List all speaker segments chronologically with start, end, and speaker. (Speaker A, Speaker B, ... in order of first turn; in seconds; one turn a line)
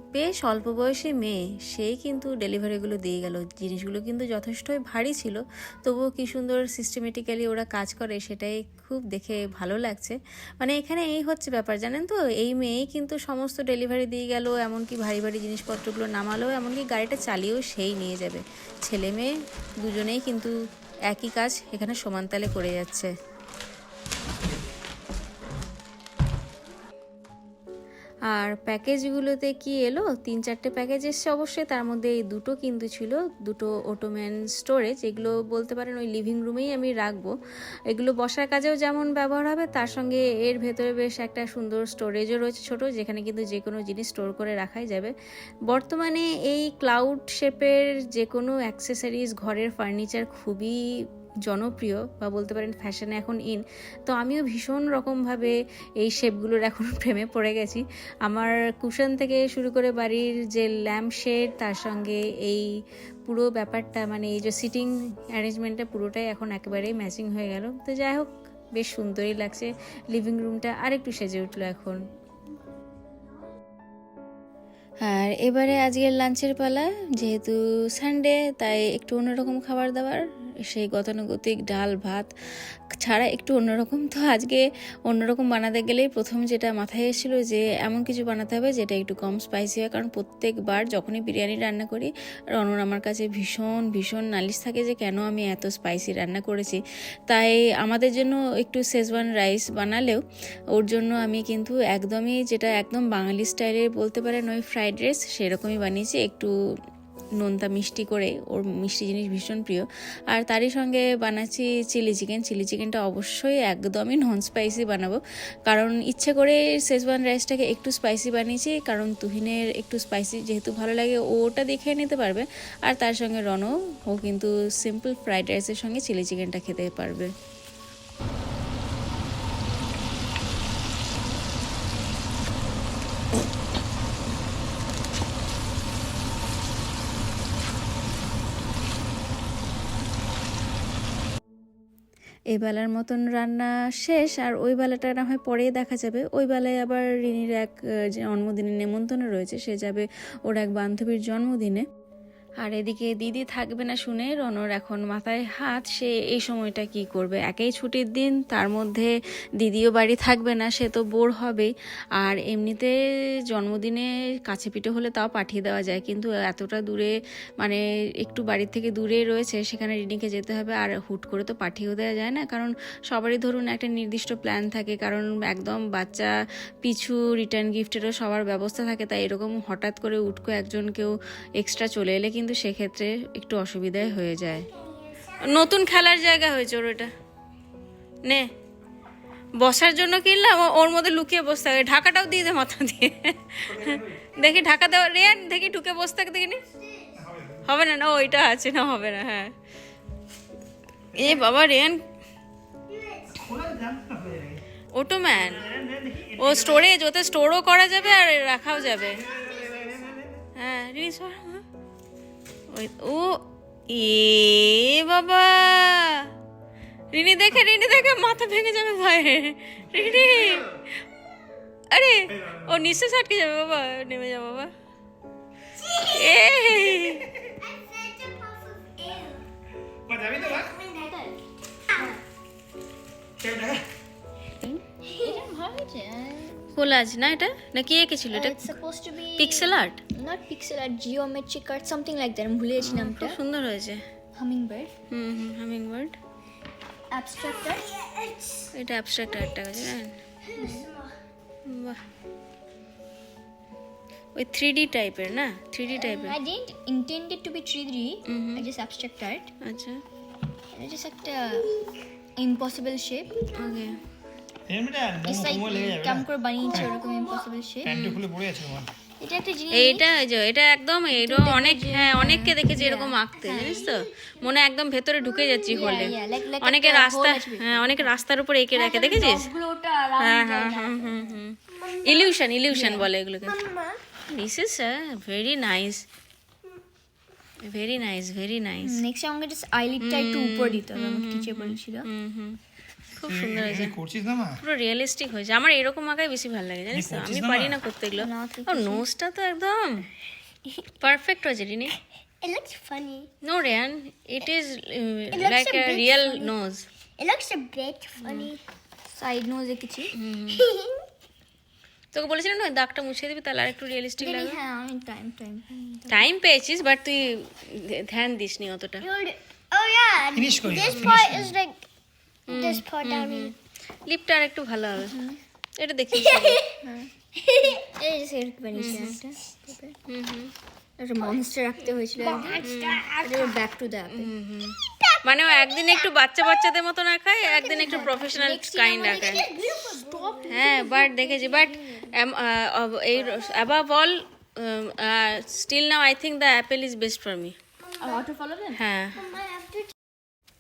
Speaker A: 0.1-20.5
Speaker A: 21.1-23.1
Speaker A: 28.3-37.3
Speaker A: 37.9-45.1
Speaker A: 45.7-50.8
Speaker A: 51.5-62.7
Speaker A: 63.3-72.0
Speaker A: 75.0-82.3
Speaker A: 83.0-100.2
Speaker A: 100.7-106.5
Speaker A: 107.4-127.3
Speaker A: 142.5-151.8
Speaker A: 152.6-162.9
Speaker A: 163.5-184.7
Speaker B: 184.6-185.8
Speaker A: 185.4-187.1
Speaker A: 189.6-196.6
Speaker C: 193.7-194.3
Speaker B: 196.7-197.2
Speaker C: 197.2-197.6
Speaker A: 197.6-199.5
Speaker A: 201.2-202.0
Speaker B: 202.9-203.6
Speaker C: 203.4-204.6
Speaker A: 204.9-205.7
Speaker C: 205.3-206.9
Speaker A: 206.4-209.2
Speaker B: 208.7-210.2
Speaker C: 209.1-210.4
Speaker A: 210.6-211.6
Speaker A: 212.7-216.3
Speaker A: 217.1-220.8
Speaker C: 220.0-220.6
Speaker A: 221.9-224.7
Speaker C: 222.3-222.8
Speaker B: 225.8-226.3
Speaker A: 226.0-227.3
Speaker B: 227.5-229.4
Speaker C: 230.1-230.7
Speaker B: 230.3-231.4
Speaker D: 230.8-231.2
Speaker C: 233.4-233.8
Speaker B: 235.1-235.4
Speaker D: 235.2-236.8
Speaker A: 236.7-238.8
Speaker D: 238.3-243.4
Speaker A: 239.4-240.0
Speaker A: 242.8-244.0
Speaker D: 244.3-244.9
Speaker A: 245.1-246.2
Speaker D: 247.1-247.9
Speaker B: 247.9-248.7
Speaker A: 248.7-250.2
Speaker B: 250.5-251.1
Speaker D: 250.6-250.9
Speaker A: 251.7-252.0
Speaker A: 254.4-256.4
Speaker D: 255.9-259.5
Speaker A: 258.3-258.6
Speaker A: 259.6-260.0
Speaker D: 260.7-261.7
Speaker D: 262.4-263.4
Speaker A: 263.5-264.0
Speaker C: 264.7-266.9
Speaker D: 265.2-267.9
Speaker B: 266.8-267.2
Speaker C: 267.8-268.9
Speaker A: 267.9-268.2
Speaker D: 269.2-270.1
Speaker A: 269.7-279.5
Speaker D: 271.1-273.9
Speaker B: 273.5-274.4
Speaker B: 275.4-276.1
Speaker D: 275.7-278.2
Speaker D: 278.7-281.4
Speaker A: 280.2-283.6
Speaker B: 281.7-282.4
Speaker D: 282.7-283.1
Speaker B: 283.4-284.0
Speaker A: 284.3-286.1
Speaker A: 287.6-289.0
Speaker D: 288.8-292.1
Speaker A: 290.0-292.6
Speaker A: 293.2-294.0
Speaker C: 293.2-294.6
Speaker A: 294.6-300.1
Speaker C: 296.9-297.8
Speaker D: 298.2-299.1
Speaker A: 301.0-302.0
Speaker B: 302.4-303.3
Speaker A: 303.4-306.9
Speaker B: 305.3-306.5
Speaker B: 307.2-308.6
Speaker A: 308.2-308.5
Speaker D: 309.1-310.1
Speaker A: 310.2-310.7
Speaker B: 310.5-311.1
Speaker A: 312.1-314.6
Speaker D: 314.2-316.3
Speaker A: 316.1-319.1
Speaker B: 319.0-321.9
Speaker C: 320.3-321.6
Speaker B: 322.5-323.5
Speaker A: 322.5-323.6
Speaker A: 324.1-325.1
Speaker D: 325.0-325.4
Speaker A: 325.8-326.6
Speaker B: 326.3-326.8
Speaker D: 326.8-327.1
Speaker B: 327.5-327.8
Speaker D: 327.6-330.0
Speaker A: 328.7-329.2
Speaker A: 330.1-330.5
Speaker D: 331.0-332.6
Speaker B: 332.2-333.6
Speaker A: 332.6-333.1
Speaker D: 333.2-334.3
Speaker A: 334.1-339.4
Speaker B: 335.0-336.0
Speaker D: 337.7-342.1
Speaker B: 339.0-340.6
Speaker A: 340.5-347.6
Speaker D: 348.0-348.8
Speaker A: 348.7-349.3
Speaker B: 349.2-349.9